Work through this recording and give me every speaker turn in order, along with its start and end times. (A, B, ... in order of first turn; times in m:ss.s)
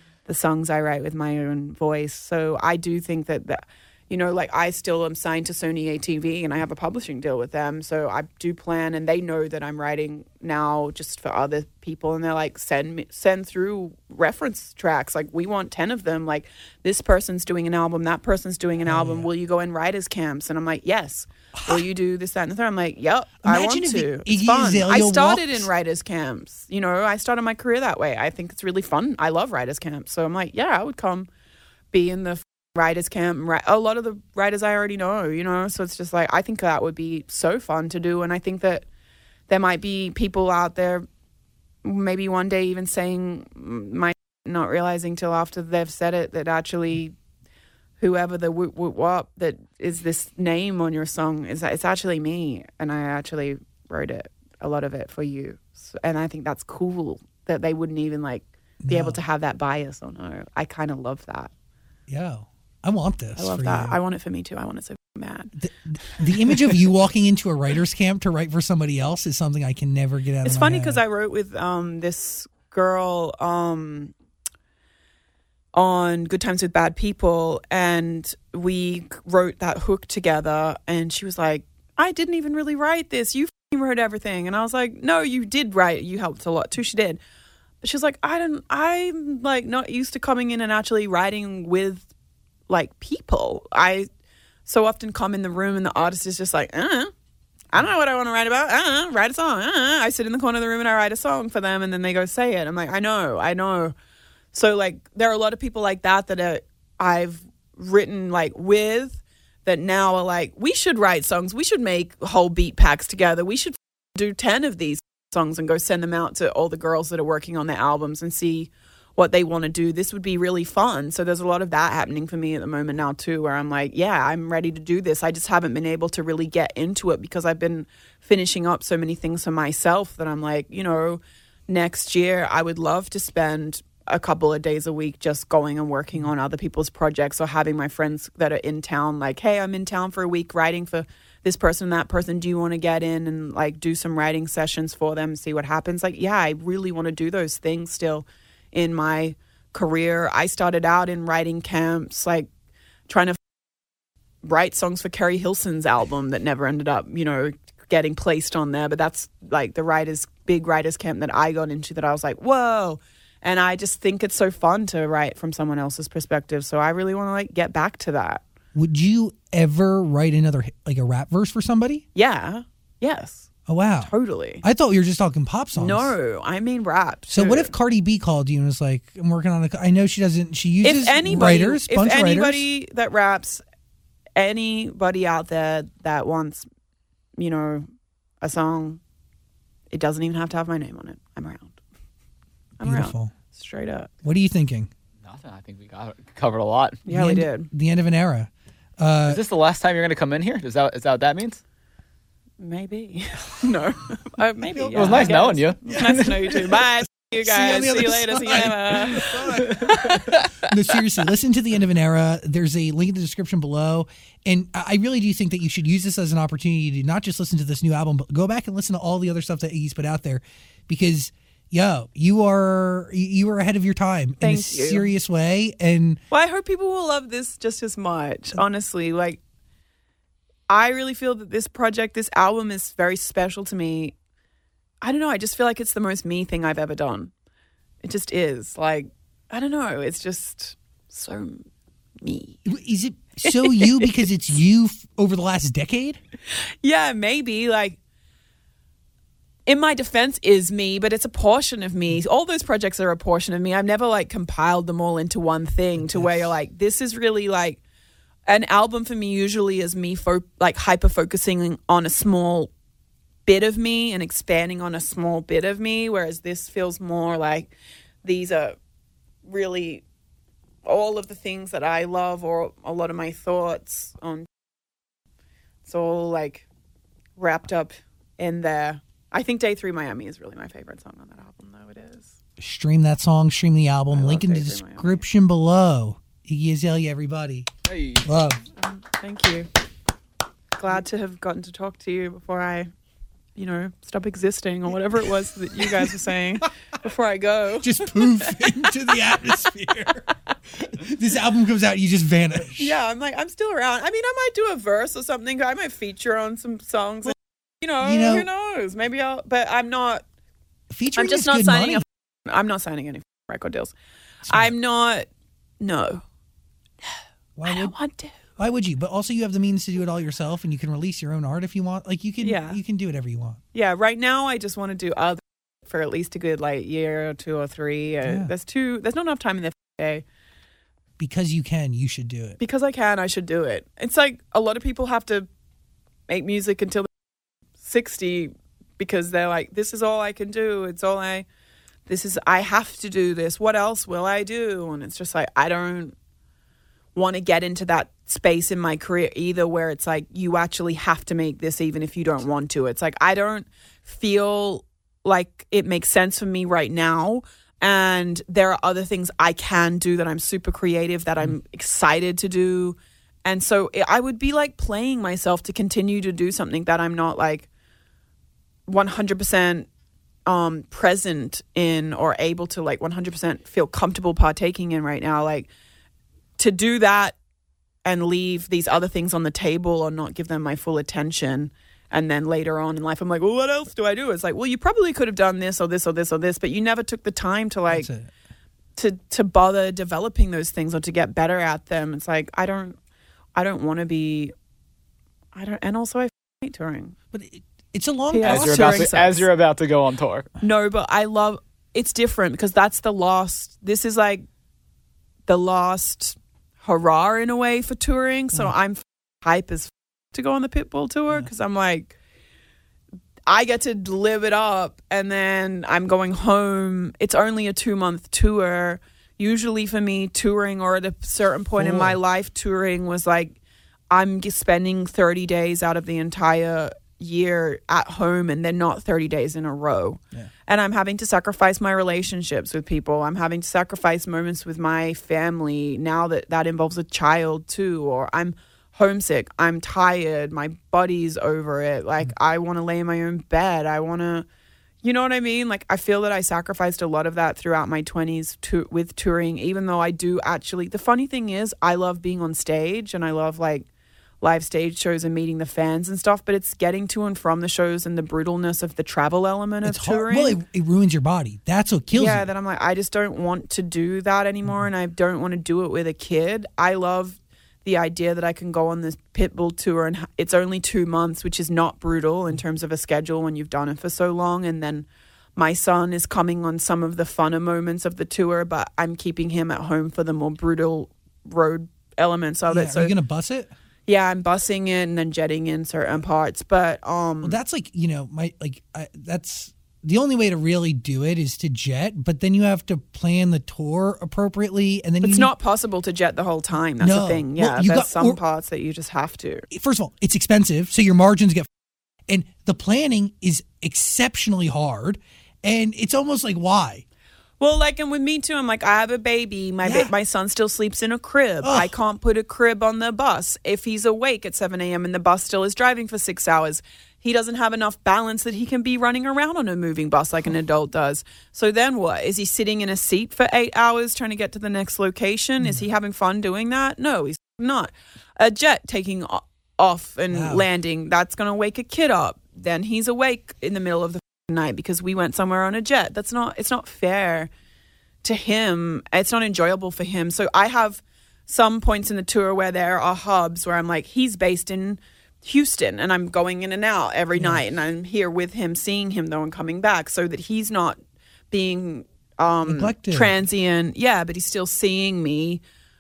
0:00.3-0:31.3 A
0:18.8-0:19.3 B
0:23.4-0:25.7 B
0:31.9-0:38.9 A
0:39.5-0:41.1 A
0:41.8-0:47.2 A
0:48.0-1:01.5 A
0:58.8-0:59.2 B
1:02.1-1:04.0 B
1:03.4-1:05.5 A
1:05.6-1:11.0 B
1:06.1-1:06.5 A
1:10.4-1:14.1 A
1:15.7-1:27.2 A
1:27.8-1:32.1 A
1:32.7-1:34.1 A
1:34.7-1:37.1 A
1:37.7-1:44.0 A
1:44.5-2:32.5 A
2:33.1-2:33.4 A
2:34.4-2:48.4 A
2:48.8-2:52.0 B
2:52.2-2:53.5 A
2:53.7-2:56.1 B
2:54.0-2:54.6 A
2:55.8-2:57.7 A
2:57.3-3:02.6 B
3:00.8-3:03.6 A
3:04.4-3:06.7 A
3:07.4-3:07.9 A
3:08.4-3:09.0 A
3:09.9-3:11.8 A
3:12.8-3:14.1 A
3:12.8-3:13.3 B
3:14.2-3:14.9 B
3:15.2-3:17.0 C
3:17.0-3:17.7 A
3:17.1-3:19.4 B
3:19.3-3:21.6 C
3:22.6-3:30.7 A
3:24.8-3:26.9 B
3:25.0-3:26.1 C
3:27.4-3:46.2 B
3:44.4-3:45.1 A
3:46.3-3:49.4 A
3:50.7-3:54.2 A
3:55.0-3:57.3 A
3:58.0-4:01.7 A
4:02.2-4:02.6 A
4:02.7-4:06.2 B
4:03.4-4:04.1 A
4:06.8-4:08.0 A
4:09.7-4:17.8 A
4:16.0-4:16.5 B
4:18.5-4:22.7 A
4:23.5-4:27.7 A
4:28.2-4:28.8 A
4:29.5-4:30.0 A
4:30.9-4:34.5 A
4:35.8-4:36.7 A
4:37.4-4:42.4 A
4:42.6-4:47.7 B
4:44.1-4:45.2 A
4:47.9-4:48.3 C
4:48.2-4:48.6 B
4:48.8-4:49.7 A
4:50.8-4:52.9 A
4:53.6-4:58.9 A
4:57.8-5:03.0 B
5:02.8-5:10.2 A
5:08.0-5:08.5 B
5:10.9-5:12.0 B
5:11.2-5:14.0 A
5:14.4-5:14.7 B
5:14.5-5:15.3 A
5:15.8-5:16.2 A
5:17.0-5:18.4 A
5:17.6-5:17.9 B
5:18.6-5:23.6 B
5:22.4-5:22.8 A
5:23.7-5:30.2 A
5:28.3-5:28.5 B
5:31.2-5:32.6 B
5:32.6-5:35.5 A
5:36.3-5:37.1 A
5:37.8-5:41.5 A
5:42.1-5:46.2 A
5:47.2-6:07.7 A
6:08.9-6:09.9 A
6:10.5-6:15.7 A
6:16.6-6:17.4 A
6:18.0-6:28.1 A
6:27.9-6:28.3 B
6:29.0-6:33.0 A
6:33.6-6:34.5 A
6:35.6-6:37.2 A
6:37.3-6:39.1 B
6:38.3-6:39.5 A
6:38.4-6:40.5 C
6:40.6-6:44.4 A
6:45.5-6:52.2 A
6:53.5-7:03.6 A
7:01.8-7:02.2 B
7:04.1-7:24.5 A
7:25.0-7:33.9 A
7:34.4-7:40.6 A
7:39.8-7:42.5 B
7:42.2-8:03.1 A
8:02.7-8:03.7 B
8:04.1-8:07.6 A
8:07.4-8:15.5 B
8:15.2-8:19.7 A
8:17.0-8:18.4 B
8:19.7-8:21.7 B
8:22.3-8:27.0 B
8:27.6-8:57.5 A
8:29.8-8:30.1 B
8:31.6-8:31.9 B
8:45.6-8:45.9 B
8:50.3-8:50.6 B
8:58.2-9:11.0 A
9:07.4-9:07.6 B
9:11.5-9:15.6 A
9:12.6-9:13.3 B